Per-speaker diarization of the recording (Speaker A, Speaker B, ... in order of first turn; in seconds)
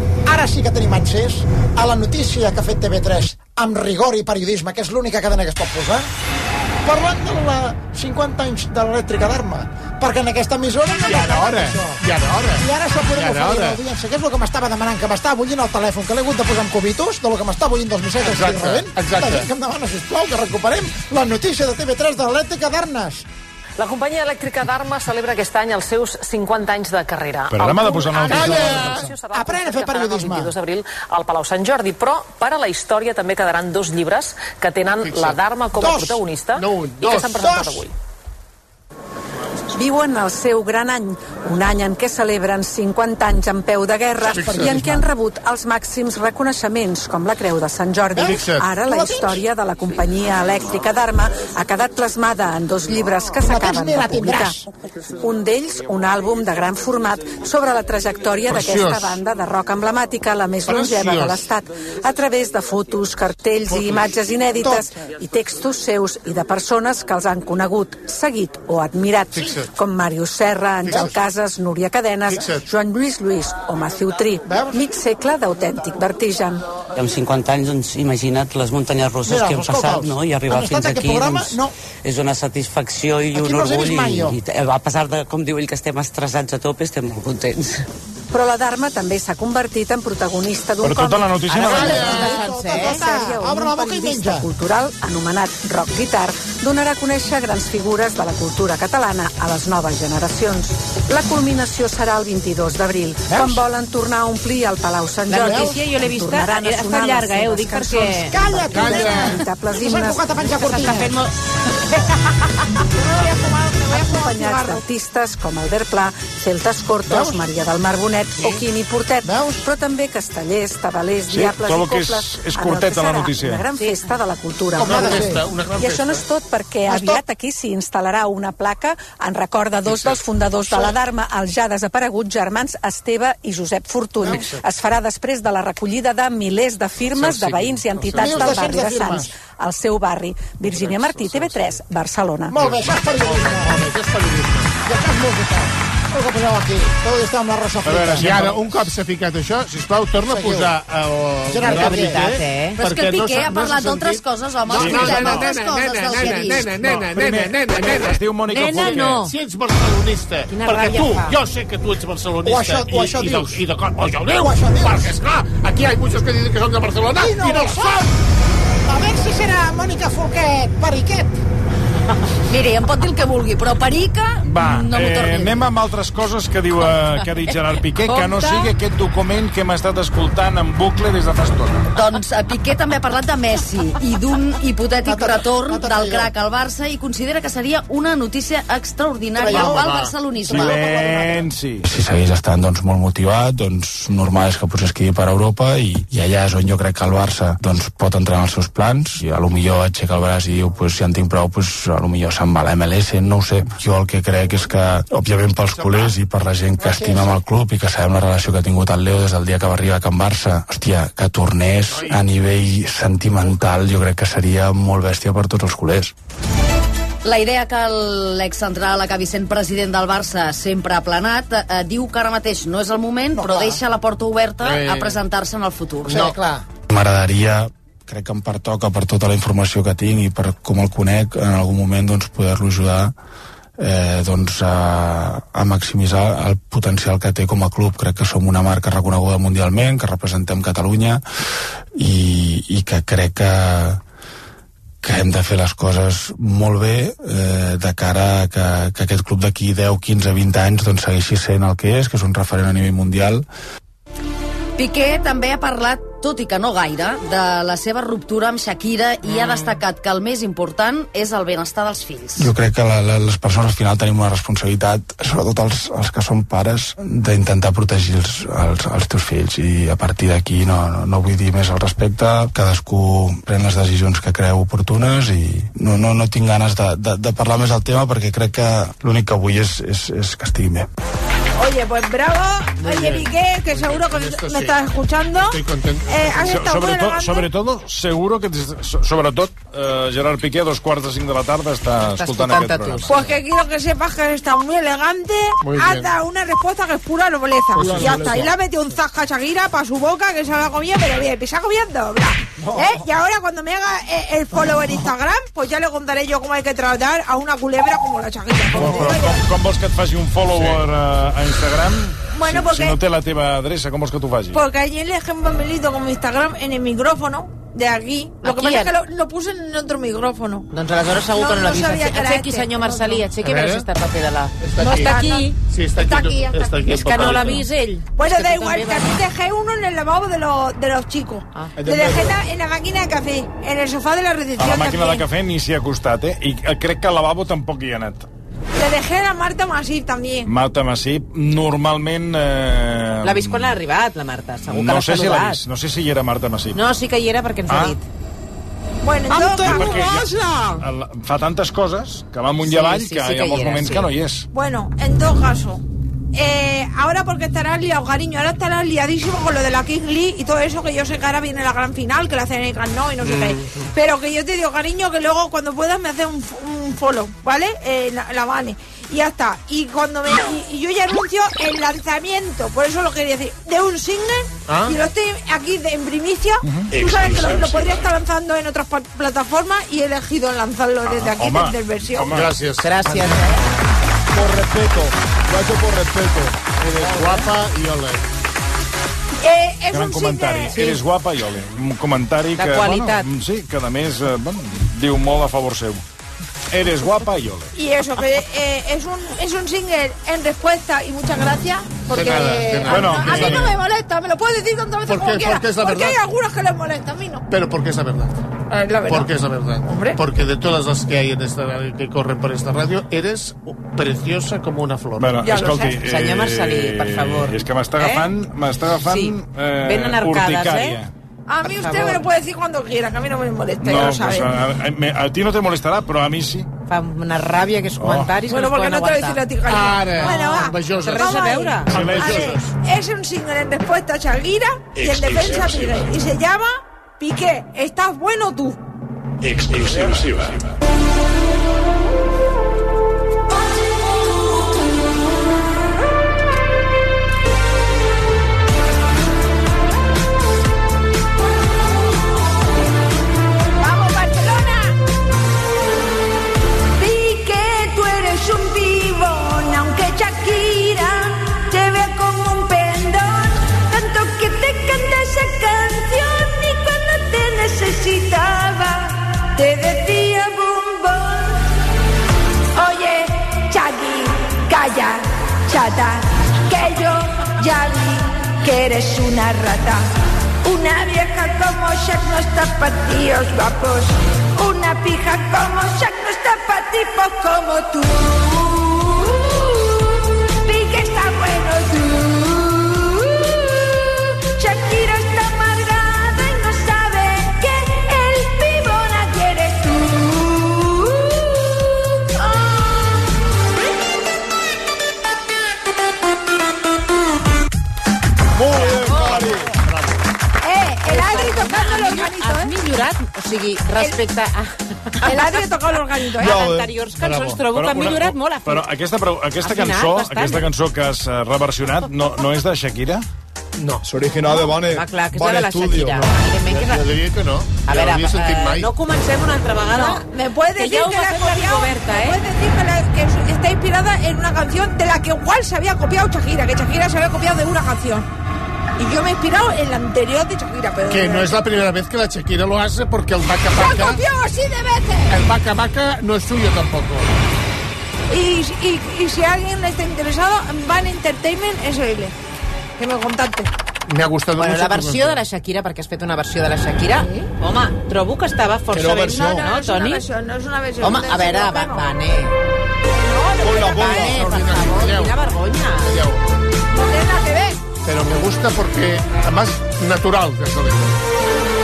Speaker A: 0.3-6.1, 6.8-12.0, 12.6-23.2, 28.5-30.5, 35.7-36.2, 37.2-37.8, 44.3-44.9, 48.1-49.4, 53.4-54.6, 74.5-74.8, 79.2-81.7, 83.3-84.4, 91.6-94.5, 103.3-103.6, 108.3-111.2, 117.1-117.4, 119.2-119.6, 124.7-125.4, 126.9-127.2, 138.1-139.3, 142.5-143.8, 144.8-148.5, 150.3-150.8, 151.5-152.4, 154.8-155.4, 162.4-163.6, 164.3-165.1, 167.2-168.1, 168.9-171.4, 185.0-186.3, 189.3-190.0, 206.8-207.3, 223.3-223.8, 226.1-226.6
Speaker B: 11.0-13.8, 18.2-19.5, 28.3-29.1, 35.0-35.4, 36.5-37.4, 44.2-45.0, 48.2-48.7, 58.5-59.1, 60.6-61.4, 63.7-64.1, 69.3-69.7, 70.9-71.2, 72.3-72.7, 91.7-92.3, 108.7-109.3, 124.8-126.2, 129.8-130.2, 134.2-134.6, 137.0-138.7, 140.6-141.7, 142.5-144.7, 148.2-158.2, 158.7-168.1, 189.4-190.2, 205.7-206.2, 211.9-212.3, 224.6-225.2, 226.1-226.4, 282.8-286.7, 295.6-296.2, 297.7-298.5, 323.4-323.9, 324.6-327.7, 374.6-375.0, 382.3-383.6, 386.8-388.2, 402.1-403.7, 405.1-406.2, 407.5-408.3, 409.1-415.4, 429.6-431.3, 431.9-432.7, 508.8-510.2, 517.2-517.6, 523.8-524.0, 526.6-528.9, 541.0-544.2, 545.3-547.4, 554.1-555.4, 564.2-565.3, 566.0-566.5, 568.0-571.2
Speaker C: 23.8-37.9
Speaker D: 27.5-29.0, 90.8-92.0, 121.3-123.7, 147.8-148.7, 156.7-159.2, 174.4-181.8, 190.4-191.8, 286.4-293.2, 308.7-314.6, 334.6-338.3, 340.4-343.8, 344.6-346.8, 347.7-347.9, 349.4-354.5, 376.6-376.9, 381.0-382.5, 389.9-396.0, 396.7-397.7, 402.9-403.7, 415.2-421.1, 423.8-426.7, 428.0-428.4, 431.9-432.5, 517.7-523.2
Speaker E: 39.7-54.6, 55.2-76.6, 88.3-110.2, 113.8-142.5
Speaker F: 77.0-87.8
Speaker G: 91.5-93.0, 105.3-108.4, 108.9-109.4, 110.4-111.3, 123.7-124.0, 151.6-152.8, 158.5-159.3, 160.5-161.3, 178.0-178.7, 292.1-293.3, 318.4-318.9, 320.7-325.6, 326.8-329.2, 331.5-331.9, 343.2-345.6, 346.7-348.0, 349.3-350.1, 352.6-354.1, 363.2-363.9, 382.8-383.6, 392.6-393.2, 415.9-418.3, 419.0-421.0, 421.5-422.2, 426.9-429.5, 430.0-431.9, 508.8-509.6, 511.0-518.9, 519.6-520.7, 524.4-527.1, 527.8-532.4, 554.5-560.3, 561.0-562.5, 563.7-566.1
Speaker H: 113.0-114.8, 281.6-287.5, 293.1-309.4, 312.3-313.0, 314.5-320.7, 321.3-322.9, 324.8-326.8, 328.1-335.2, 338.8-340.5, 349.0-350.2, 354.5-355.8, 356.3-382.3, 389.4-390.9, 397.7-407.4, 408.7-409.3, 409.9-410.2, 415.4-416.0, 421.5-424.5, 428.5-438.8, 453.8-454.9, 457.0-471.5, 472.8-480.0, 480.6-489.8, 490.6-493.5, 494.5-501.2, 502.4-502.8, 510.6-512.7, 515.2-516.5, 529.9-538.2, 539.0-541.6, 543.7-545.4, 548.3-552.3, 553.0-553.7, 559.5-562.0, 563.1-564.0, 566.9-567.8
Speaker I: 152.8-156.6, 172.5-175.6, 181.9-191.3, 217.2-226.2, 254.8-262.5
Speaker J: 191.8-216.1, 226.9-233.1, 233.8-241.2, 241.9-244.0, 245.0-253.4, 262.4-280.9
Speaker K: 297.8-298.5, 331.8-332.3, 384.3-386.7, 508.5-509.7, 516.4-516.9, 524.0-526.3, 558.9-559.6, 563.6-564.5